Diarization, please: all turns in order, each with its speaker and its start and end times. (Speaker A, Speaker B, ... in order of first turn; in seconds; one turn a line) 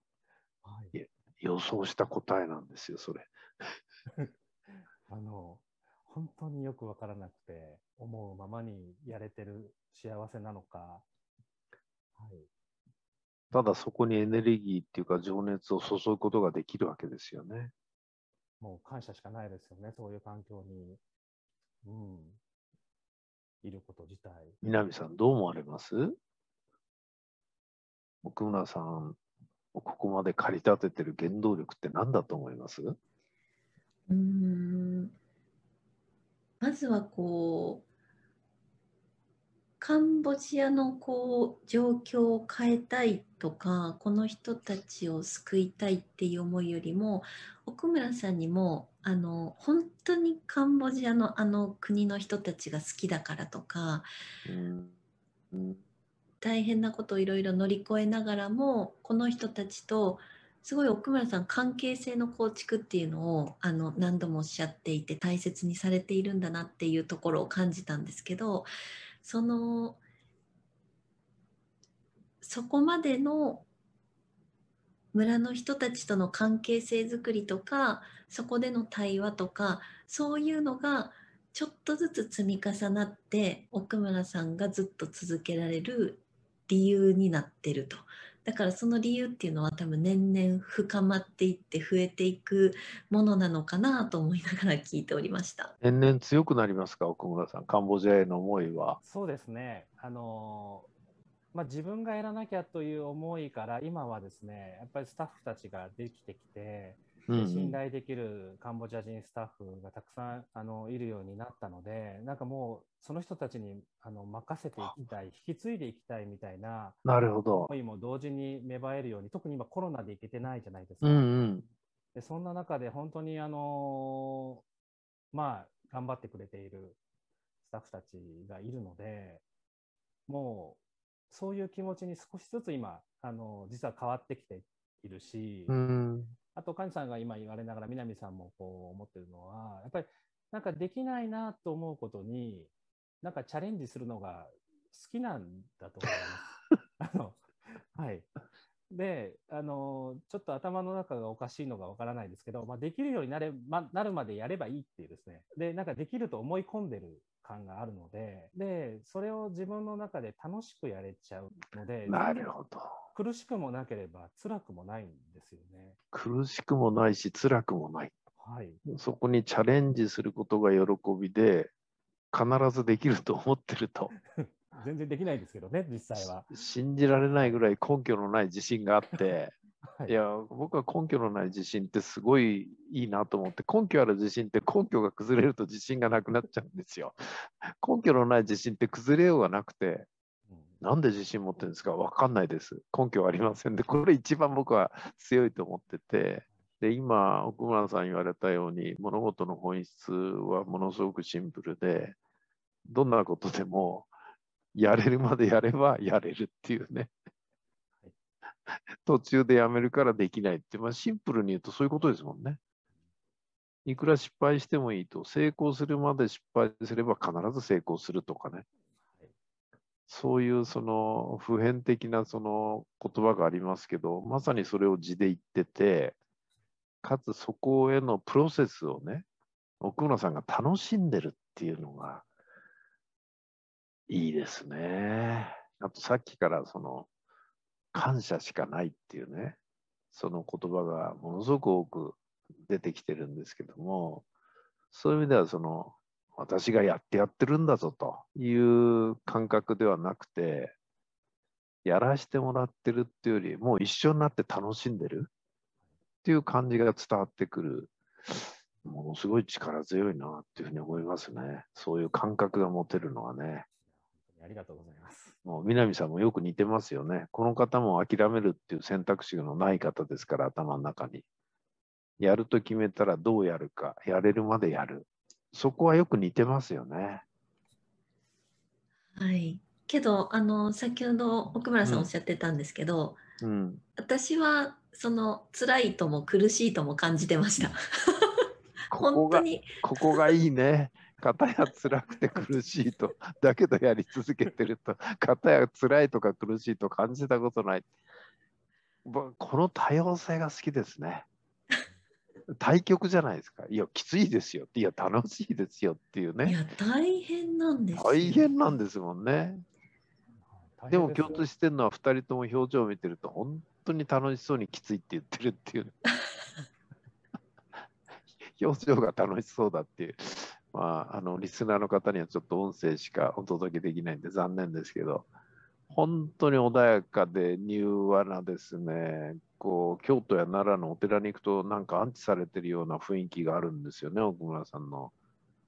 Speaker A: 0.6-0.9
Speaker B: 0.9-3.3
Speaker A: 5.1-11.0
Speaker A: 12.2-12.5
Speaker B: 13.5-17.7
Speaker A: 18.6-21.0
Speaker A: 21.8-22.4
Speaker A: 23.6-24.6
Speaker B: 24.6-26.1
Speaker B: 28.2-29.2
Speaker B: 29.7-33.0
Speaker C: 34.1-35.1
Speaker C: 36.6-37.8
Speaker C: 39.8-54.1
Speaker B: 54.5-54.9
Speaker B: 55.5-55.8
Speaker C: 56.4-68.7
Speaker C: 69.2-70.0
Speaker C: 72.4-73.7
Speaker C: 75.1-95.7
Speaker B: 95.8-99.0
Speaker A: 99.0-100.9
Speaker A: 101.5-117.0
Speaker B: 107.3-107.8
Speaker B: 114.8-115.0
Speaker B: 117.0-117.7
Speaker A: 117.7-121.3
Speaker B: 121.0-121.7
Speaker A: 122.1-124.6
Speaker A: 125.3-127.0
Speaker A: 127.6-129.4
Speaker A: 130.3-135.8
Speaker B: 135.7-136.3
Speaker A: 136.5-142.7
Speaker A: 143.2-148.3
Speaker A: 148.9-162.5
Speaker B: 162.1-162.9
Speaker A: 163.1-166.0
Speaker B: 166.1-168.1
Speaker A: 168.4-168.8
Speaker B: 168.8-171.7
Speaker B: 172.3-174.1
Speaker A: 174.2-176.5
Speaker B: 176.5-179.5
Speaker A: 177.2-177.6
Speaker A: 179.8-180.2
Speaker B: 180.1-187.2
Speaker B: 187.8-190.1
Speaker A: 190.5-190.8
Speaker B: 190.8-202.2
Speaker B: 202.9-204.1
Speaker B: 204.7-207.1
Speaker B: 209.0-212.6
Speaker B: 213.8-218.7
Speaker A: 219.1-219.3
Speaker B: 220.1-226.2
Speaker B: 227.0-229.2
Speaker B: 229.8-232.2
Speaker B: 234.1-237.1
Speaker B: 237.9-239.6
Speaker B: 240.1-244.2
Speaker B: 244.9-250.7
Speaker B: 251.8-255.3
Speaker B: 256.2-263.6
Speaker A: 264.0-265.4
Speaker B: 265.4-271.2
Speaker B: 272.2-277.2
Speaker C: 279.2-283.2
Speaker B: 281.8-282.1
Speaker B: 283.4-283.8
Speaker C: 284.0-288.3
Speaker B: 288.9-297.9
Speaker C: 288.9-290.3
Speaker B: 299.0-301.3
Speaker B: 302.5-306.6
Speaker C: 306.4-308.8
Speaker B: 307.9-309.6
Speaker A: 310.4-311.4
Speaker B: 310.9-315.9
Speaker B: 318.6-325.3
Speaker B: 325.9-335.1